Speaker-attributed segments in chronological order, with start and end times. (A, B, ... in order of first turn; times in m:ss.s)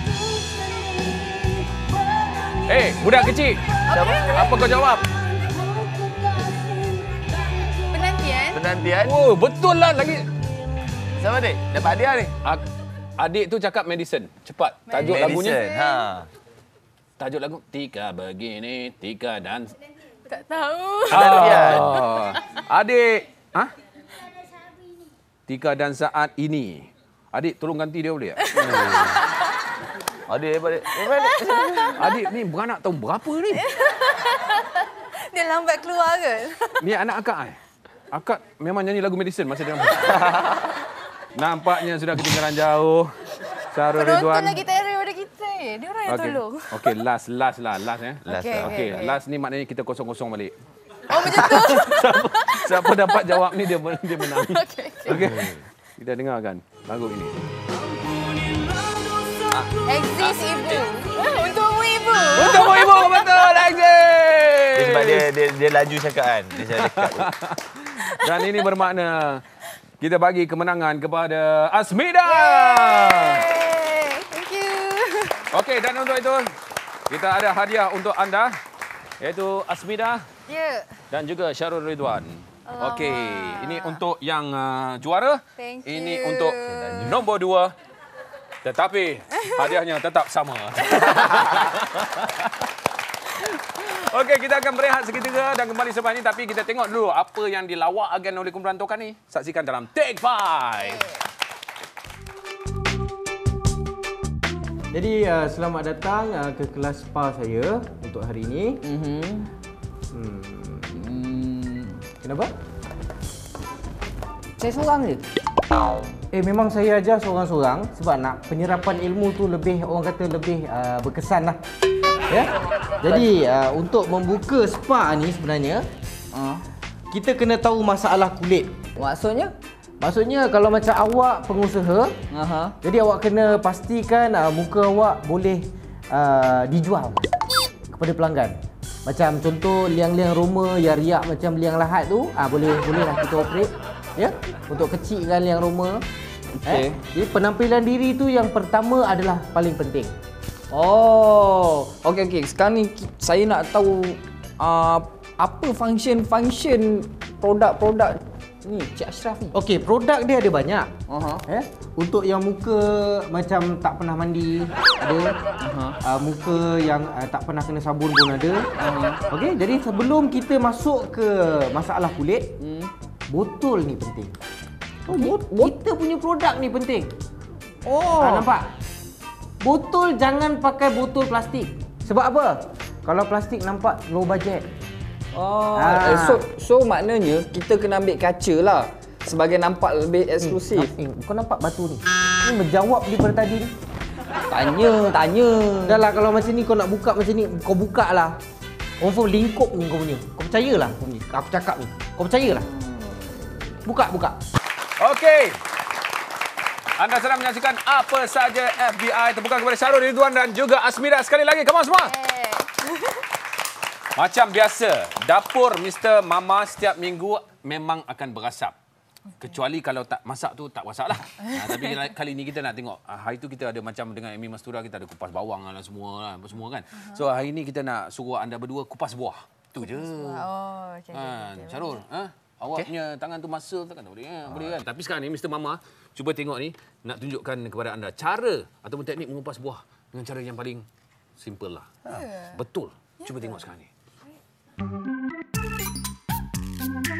0:02.6-0:05.1 A
0:03.8-0:04.6 B
0:03.9-0:04.6 C
0:07.9-0:08.6 B
0:08.5-0:09.2 C
0:09.0-0:10.3 A
0:11.0-0:12.3 C
0:13.2-0:15.6 A
0:14.9-0:15.9 B
0:15.0-0:16.3 C
0:17.2-0:19.8 A
0:20.2-0:22.4 B
0:21.1-0:22.1 C
0:21.1-0:23.7 A
0:25.5-0:29.2 A
0:28.4-0:29.6 B
0:30.3-0:32.0 C
0:31.1-0:32.1 B
0:32.0-0:33.7 A
0:33.5-0:36.8 B
0:36.8-0:37.6 A
0:38.1-0:40.2 A
0:40.0-0:40.8 C
0:41.3-0:44.6 A
0:43.9-0:47.0 B
0:46.1-0:50.5 A
0:48.2-0:49.2 B
0:48.3-0:49.0 C
0:51.1-0:53.4 B
0:51.1-0:57.4 A
0:54.2-0:55.4 B
0:55.1-0:55.6 C
0:59.7-1:03.6 B
1:02.3-1:05.2 A
1:04.7-1:07.3 C
1:06.8-1:09.4 A
1:10.0-1:13.4 A
1:12.2-1:15.4 B
1:15.5-1:16.5 A
1:17.1-1:18.6 A
1:19.2-1:20.3 A
1:20.5-1:20.9 B
1:21.1-1:27.7 A
1:22.7-1:24.0 B
1:25.6-1:27.2 B
1:26.6-1:27.2 C
1:28.6-1:32.7 A
1:29.4-1:29.7 B
1:31.0-1:31.6 B
1:33.3-1:41.0 A
1:40.8-1:41.2 B
1:44.9-1:48.8 D
1:48.8-1:49.5 E
1:50.1-1:50.9 D
1:50.9-1:52.0 E
1:52.2-1:52.5 D
1:54.6-1:55.2 E
1:56.3-2:01.6 D
2:02.3-2:05.8 D
2:06.3-2:06.6 E
2:07.1-2:08.7 D
2:09.0-2:09.5 E
2:10.0-2:12.1 D
2:12.3-2:12.8 E
2:12.8-2:17.3 D
2:17.9-2:18.5 D
2:19.0-2:26.0 D
2:26.6-2:27.0 E
2:26.6-2:30.1 D
2:30.7-2:39.5 E
2:39.5-2:40.9 D
2:41.1-2:41.4 E
2:41.5-2:45.4 D
2:45.6-2:46.0 E
2:46.0-2:48.7 D
2:48.8-2:49.2 E
2:49.3-2:52.5 D
2:52.6-2:52.9 E
2:53.3-2:54.3 D
2:55.0-2:57.1 D
2:55.1-2:55.8 E
2:57.8-2:58.5 E
2:58.2-2:58.6 D
2:59.6-3:04.6 D
3:05.3-3:10.9 E
3:05.7-3:06.4 D
3:10.4-3:13.7 D
3:14.5-3:16.0 E
3:15.8-3:18.3 D
3:19.0-3:22.6 D
3:23.8-3:24.4 D
3:25.0-3:25.6 A
3:27.0-3:32.1 A
3:32.0-3:33.3 B
3:34.2-3:38.8 A
3:39.4-3:50.4 A
3:41.4-3:42.0 B
3:46.9-3:47.2 B
3:49.8-3:52.0 B
3:51.1-4:00.8 A
3:54.5-3:54.8 C
4:01.4-4:01.9 A
4:02.1-4:02.6 B
4:02.5-4:03.9 A
4:03.2-4:03.5 B